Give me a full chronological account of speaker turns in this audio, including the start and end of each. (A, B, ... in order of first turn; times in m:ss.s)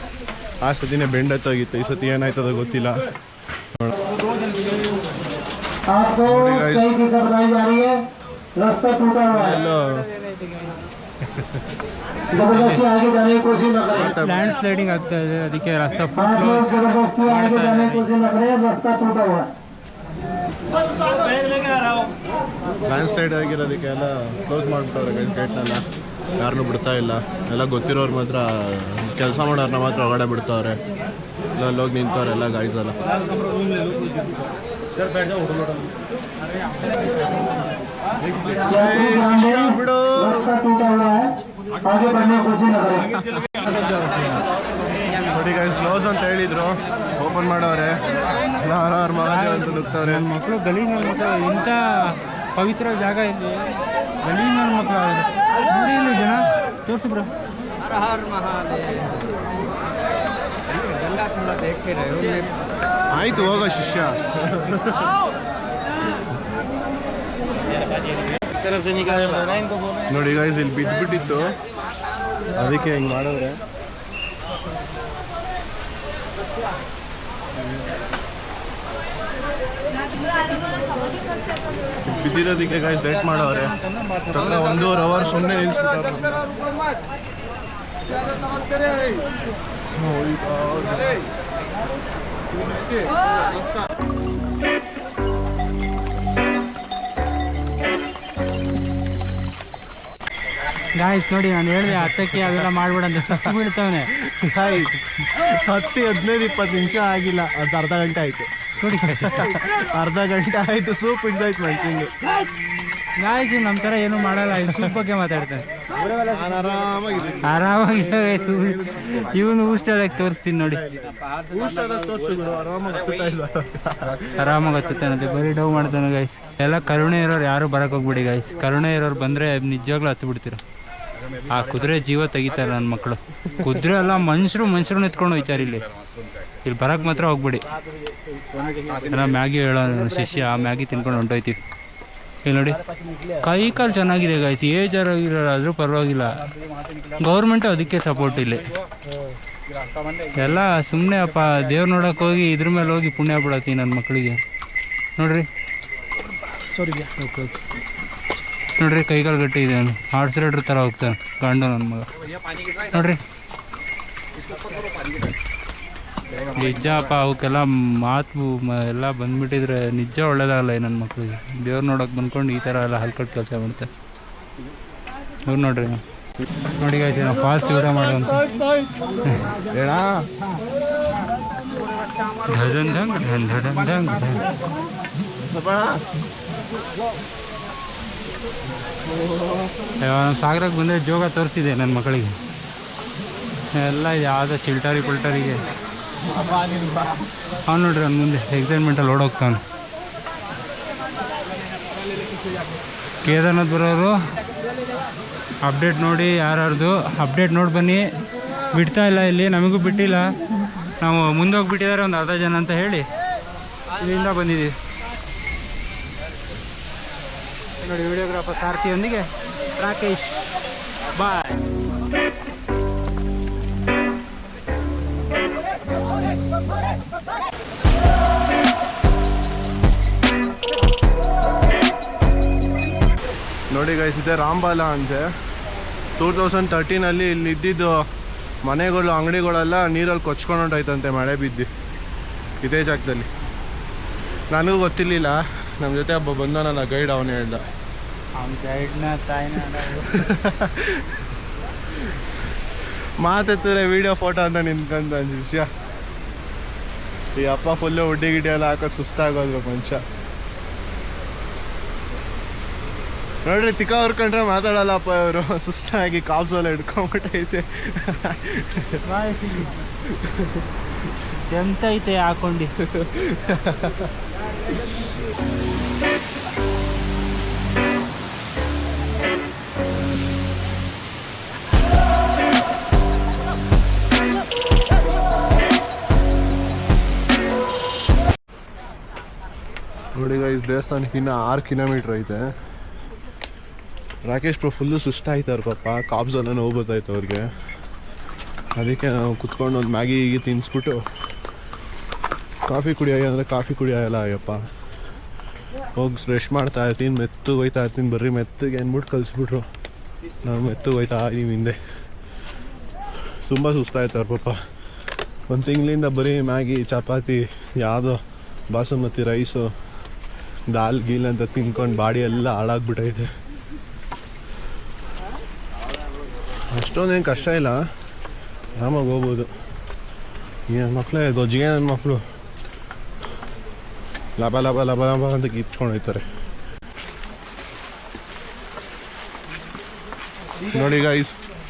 0:00.6-0:03.0 A
0:05.9-0:08.0 B
0:06.2-0:06.9 A
0:08.6-0:09.5 B
0:09.3-0:10.1 A
0:12.3-0:13.0 C
0:12.3-0:14.1 B
0:13.9-0:14.5 A
0:14.0-0:18.2 C
0:16.4-0:19.5 B
0:22.9-0:25.8 A
0:26.4-0:30.8 A
0:31.6-0:33.0 A
0:38.5-0:40.5 A
0:38.7-0:41.3 B
0:41.8-0:43.2 B
0:45.3-0:48.0 A
0:48.6-0:50.2 A
0:49.3-0:57.3 C
1:03.1-1:05.1 A
1:10.1-1:11.5 A
1:12.5-1:13.6 A
1:22.0-1:23.8 A
1:24.3-1:26.4 A
1:30.0-1:31.2 A
1:40.9-1:44.2 C
1:43.3-1:43.6 A
1:44.2-1:52.1 A
1:48.8-1:49.4 C
1:53.1-1:55.7 C
1:54.7-1:55.0 A
1:56.0-1:57.7 A
1:57.4-2:00.9 C
2:01.3-2:04.3 A
2:04.3-2:10.6 C
2:11.4-2:15.9 C
2:16.6-2:17.6 C
2:19.0-2:21.6 C
2:22.4-2:26.5 C
2:27.1-2:28.7 C
2:30.3-2:34.4 C
2:35.2-2:35.5 C
2:36.9-2:37.6 C
2:38.8-2:42.1 C
2:42.8-2:43.2 C
2:46.5-2:53.9 C
2:55.4-2:56.0 C
2:56.7-2:58.4 C
2:57.8-2:59.1 A
2:59.7-3:00.3 A
3:02.4-3:04.5 C
3:05.4-3:06.0 A
3:09.0-3:09.7 A
3:10.0-3:12.4 C
3:13.7-3:15.6 C
3:17.5-3:19.6 C
3:23.2-3:24.2 C
3:25.6-3:28.0 C
3:28.7-3:30.3 C
3:31.0-3:33.1 C
3:34.0-3:34.7 C
3:37.8-3:40.4 C
3:41.1-3:41.6 C
3:53.7-3:55.3 A
3:56.2-3:58.0 A
3:58.6-4:01.7 A
4:02.6-4:03.3 A
4:04.5-4:07.6 A
4:08.4-4:10.2 C
4:10.1-4:11.2 A
4:13.2-4:15.7 A
4:17.4-4:20.0 A
4:23.4-4:29.0 A
4:29.0-4:29.8 C
4:30.0-4:30.6 A
4:31.3-4:32.7 C
4:32.8-4:34.1 A
4:50.2-4:52.5 A
4:54.2-4:57.5 A
4:58.8-5:01.0 A
5:02.7-5:04.6 A
5:05.9-5:09.7 A
5:10.4-5:11.8 A
5:13.5-5:14.6 A
5:15.5-5:18.2 A
5:18.7-5:19.7 A
5:20.7-5:23.3 A
5:26.7-5:27.8 A
5:28.8-5:29.5 A
5:30.7-5:32.2 A
5:34.4-5:36.2 A
5:40.6-5:41.3 A